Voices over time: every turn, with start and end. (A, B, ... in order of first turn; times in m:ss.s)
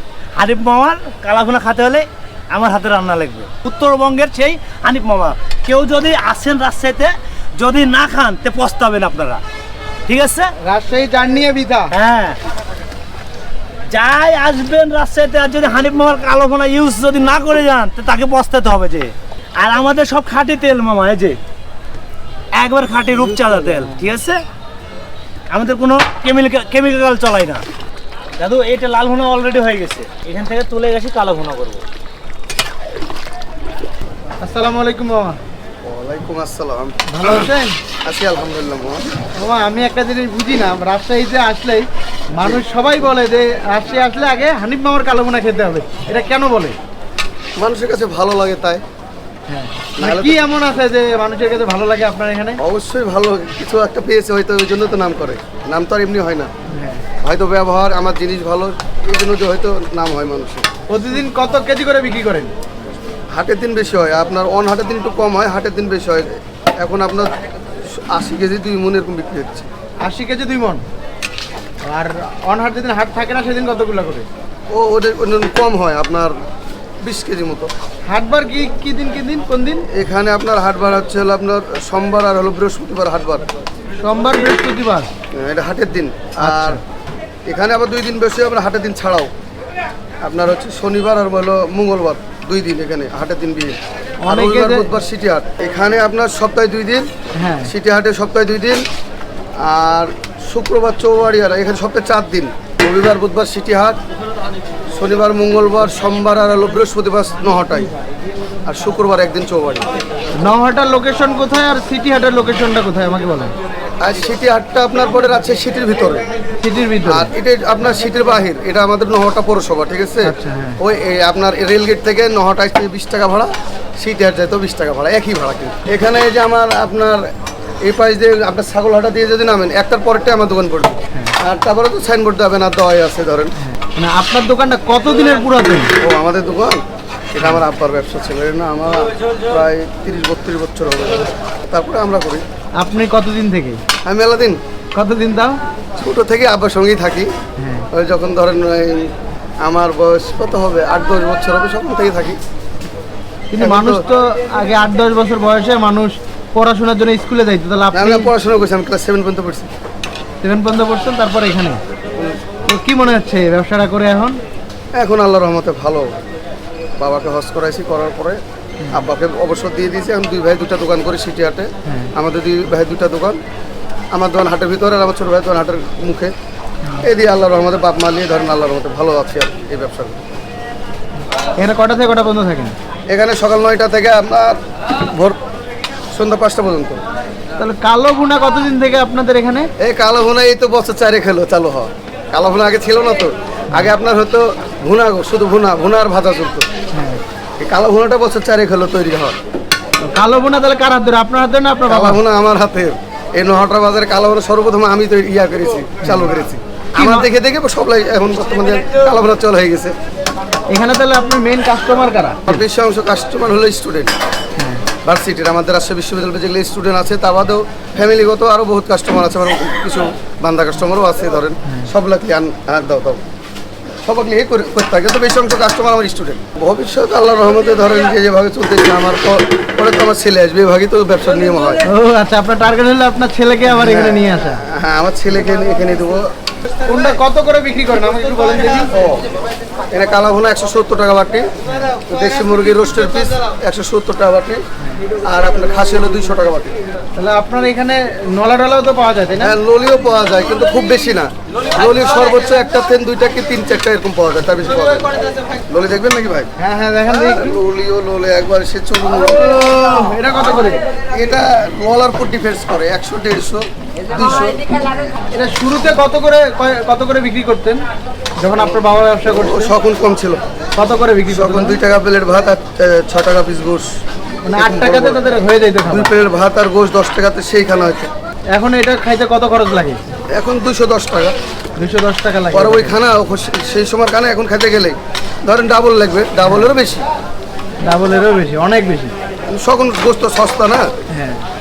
0:00.4-0:09.4 A
0:10.1-0:10.5 A
0:10.6-0:11.9 B
0:11.9-0:12.4 A
0:13.9-0:21.4 A
0:22.5-0:24.4 A
0:23.1-0:24.1 B
0:25.5-0:27.6 A
0:28.4-0:31.8 A
0:34.4-0:35.4 B
0:35.8-0:37.5 C
0:37.1-0:37.7 B
0:38.0-0:39.1 C
0:39.4-0:46.8 B
0:47.6-0:48.8 C
0:49.5-0:52.6 B
0:50.0-0:50.4 C
0:52.6-0:56.5 C
0:56.7-0:57.0 B
0:57.2-1:00.7 C
1:00.9-1:02.5 B
1:03.3-1:09.7 C
1:10.0-1:10.8 B
1:11.8-1:14.3 B
1:14.7-1:16.4 C
1:17.0-1:17.7 C
1:18.1-1:19.8 B
1:19.9-1:23.4 C
1:24.0-1:25.1 B
1:25.3-1:26.8 C
1:26.4-1:26.8 B
1:27.5-1:29.3 C
1:30.2-1:37.1 C
1:34.2-1:34.9 B
1:37.4-1:37.7 B
1:37.6-1:38.8 C
1:39.6-1:44.0 C
1:44.9-1:47.9 C
1:48.6-1:49.8 C
1:50.4-1:53.5 B
1:54.0-1:56.2 C
1:56.6-1:57.3 B
1:57.0-2:13.5 C
2:00.2-2:00.8 B
2:13.6-2:15.9 B
2:16.0-2:16.8 C
2:17.3-2:22.4 C
2:22.8-2:23.8 B
2:24.0-2:24.6 C
2:24.9-2:25.6 B
2:26.0-2:27.3 C
2:27.6-2:27.9 B
2:27.9-2:32.4 C
2:33.5-2:38.3 B
2:33.6-2:34.0 C
2:37.9-2:39.7 C
2:40.4-2:41.8 B
2:42.7-2:44.4 B
2:44.9-2:46.2 C
2:47.0-2:53.4 C
2:48.8-2:49.1 B
2:51.8-2:52.1 B
2:54.1-2:56.3 C
2:57.0-3:00.2 C
3:01.6-3:02.7 B
3:03.1-3:05.4 C
3:06.1-3:07.0 C
3:07.6-3:09.7 B
3:09.8-3:16.7 C
3:16.9-3:17.2 B
3:17.6-3:19.4 C
3:20.0-3:22.2 B
3:21.9-3:29.9 C
3:26.0-3:26.3 B
3:26.9-3:27.3 B
3:30.7-3:32.6 B
3:32.4-3:34.1 C
3:34.6-3:34.8 B
3:35.0-3:43.2 C
3:44.0-3:51.8 C
3:51.8-3:54.6 B
3:53.7-3:56.3 C
3:56.8-3:58.9 B
3:58.9-3:59.3 C
3:59.9-4:04.6 C
4:01.6-4:02.0 B
4:05.2-4:06.7 C
4:07.2-4:09.6 B
4:09.4-4:16.5 C
4:16.6-4:17.6 B
4:17.1-4:19.7 C
4:19.4-4:20.8 B
4:21.1-4:24.6 C
4:24.8-4:27.8 B
4:28.4-4:29.7 B
4:29.3-4:30.4 C
4:30.8-4:31.8 B
4:31.3-4:33.9 C
4:34.4-4:36.1 B
4:34.6-4:35.2 C
4:35.9-4:38.1 C
4:38.5-4:40.0 B
4:40.3-4:41.3 C
4:41.8-4:43.0 B
4:42.5-4:47.0 C
4:46.4-4:46.7 B
4:47.8-4:49.1 B
4:49.5-4:50.9 C
4:51.1-4:51.4 B